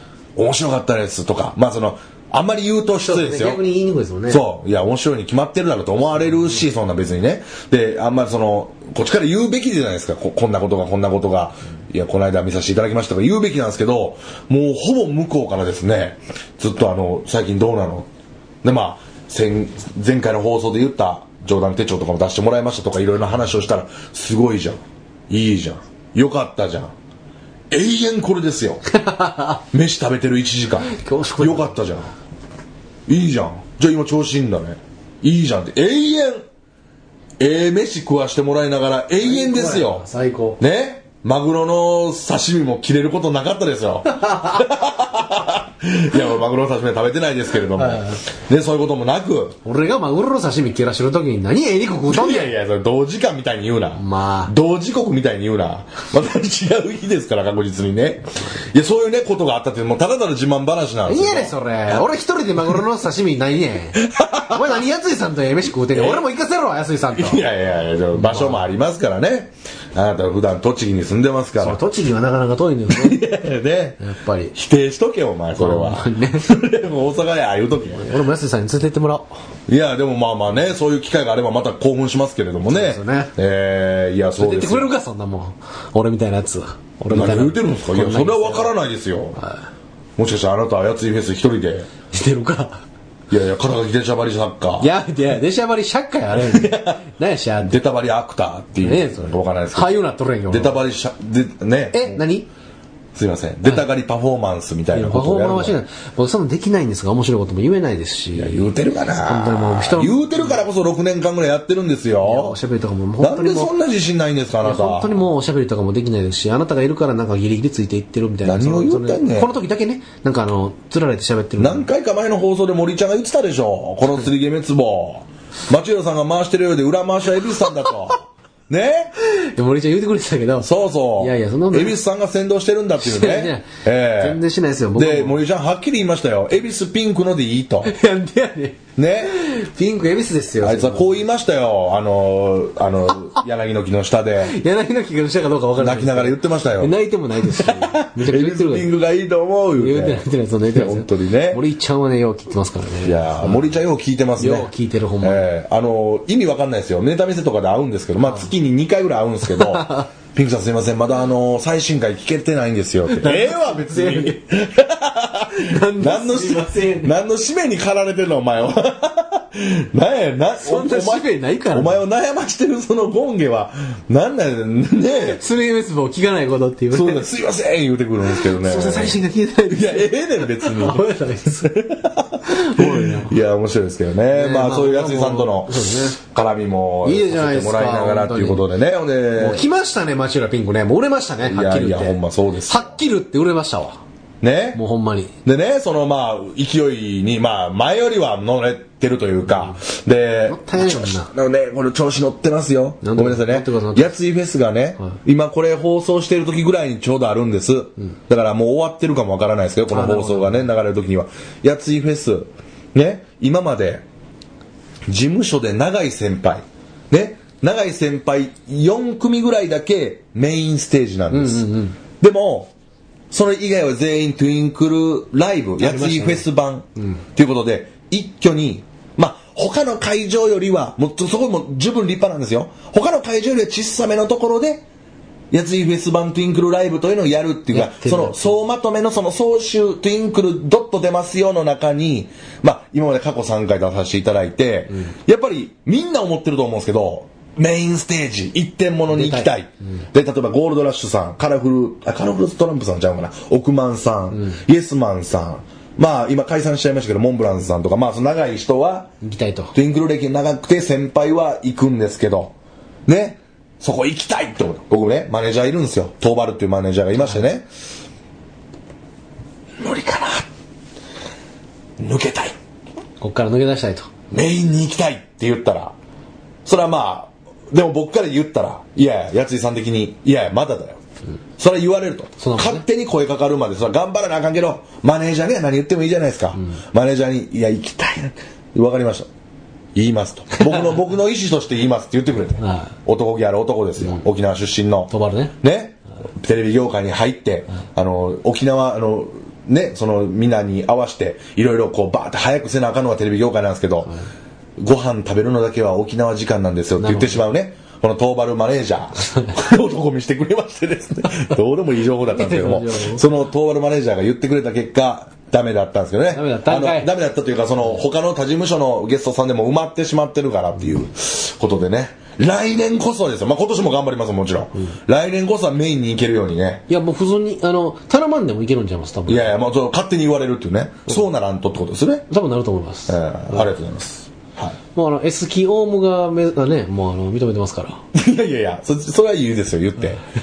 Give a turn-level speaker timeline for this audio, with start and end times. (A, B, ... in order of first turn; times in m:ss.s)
0:00.4-0:03.6 A
0:03.0-0:04.4 B
0:04.3-0:18.1 A
0:18.6-0:26.9 A
0:27.7-0:28.8 A
0:28.9-0:29.6 B
0:29.7-0:32.1 A
0:30.8-0:31.8 B
0:33.1-0:36.4 A
0:37.4-0:40.0 A
0:39.2-0:40.6 B
0:40.6-0:49.6 A
0:44.2-0:44.6 B
0:47.8-0:48.2 B
0:49.6-0:52.5 B
0:52.1-1:01.5 A
0:54.0-0:54.5 B
1:01.0-1:07.4 B
1:04.0-1:04.6 A
1:05.9-1:06.2 A
1:07.1-1:11.8 A
1:08.1-1:08.6 B
1:11.6-1:13.2 B
1:12.9-1:14.0 A
1:14.0-1:14.5 B
1:14.5-1:18.1 A
1:15.6-1:16.4 B
1:17.9-1:19.3 B
1:19.7-1:24.9 A
1:22.7-1:23.3 B
1:24.4-1:28.7 B
1:27.1-1:29.4 A
1:30.2-1:31.9 A
1:32.1-1:32.8 B
1:33.3-1:34.9 A
1:34.8-1:37.8 B
1:36.3-1:37.0 A
1:37.6-1:42.2 A
1:38.8-1:40.8 B
1:41.9-1:42.5 B
1:43.1-1:45.8 A
1:44.9-1:50.6 B
1:48.4-1:52.6 A
1:52.2-1:53.7 B
1:53.2-1:55.2 A
1:54.6-2:01.9 B
1:58.4-1:59.5 A
2:01.6-2:09.1 A
2:09.2-2:12.0 B
2:10.6-2:14.4 A
2:13.0-2:15.4 B
2:14.9-2:17.9 A
2:17.8-2:21.2 B
2:19.0-2:19.4 A
2:20.6-2:24.6 A
2:24.4-2:28.9 B
2:25.8-2:27.0 A
2:27.5-2:31.6 A
2:29.8-2:33.8 B
2:33.0-2:55.4 A
2:34.4-2:35.5 B
2:38.2-2:38.5 B
2:39.5-2:40.1 B
2:43.1-2:44.4 B
2:45.5-2:47.1 B
2:50.6-2:52.0 B
2:55.3-2:57.2 B
2:56.9-2:59.2 A
2:58.3-3:01.7 B
2:59.7-3:09.7 A
3:02.4-3:03.4 B
3:04.3-3:06.2 B
3:07.0-3:08.6 B
3:09.4-3:14.0 B
3:11.4-3:13.0 A
3:14.4-3:14.8 A
3:14.7-3:15.3 B
3:15.4-3:34.0 A
3:20.5-3:21.3 B
3:23.0-3:24.1 B
3:29.9-3:30.7 B
3:35.1-3:42.7 A
3:41.3-3:42.0 B
3:43.3-3:54.8 A
3:45.8-3:46.4 B
3:55.5-4:19.1 A
3:57.7-3:58.6 B
4:09.1-4:09.5 B
4:19.2-4:19.7 B
4:19.7-4:22.5 A
4:23.1-4:27.6 A
4:29.8-4:30.5 A
4:32.0-4:32.5 A
4:33.2-4:34.1 B
4:34.3-4:35.9 A
4:36.6-4:41.0 A
4:41.6-4:49.3 A
4:42.4-4:42.8 B
4:49.9-5:04.1 A
4:52.6-4:52.9 B
4:55.1-4:55.5 B
5:04.8-5:26.8 A
5:07.0-5:07.4 B
5:12.3-5:13.2 B
5:16.3-5:17.1 B
5:26.9-5:29.5 B
5:29.3-5:32.3 A
5:32.3-5:33.6 B
5:33.1-5:34.8 A
5:34.9-5:38.0 B
5:38.1-5:40.2 A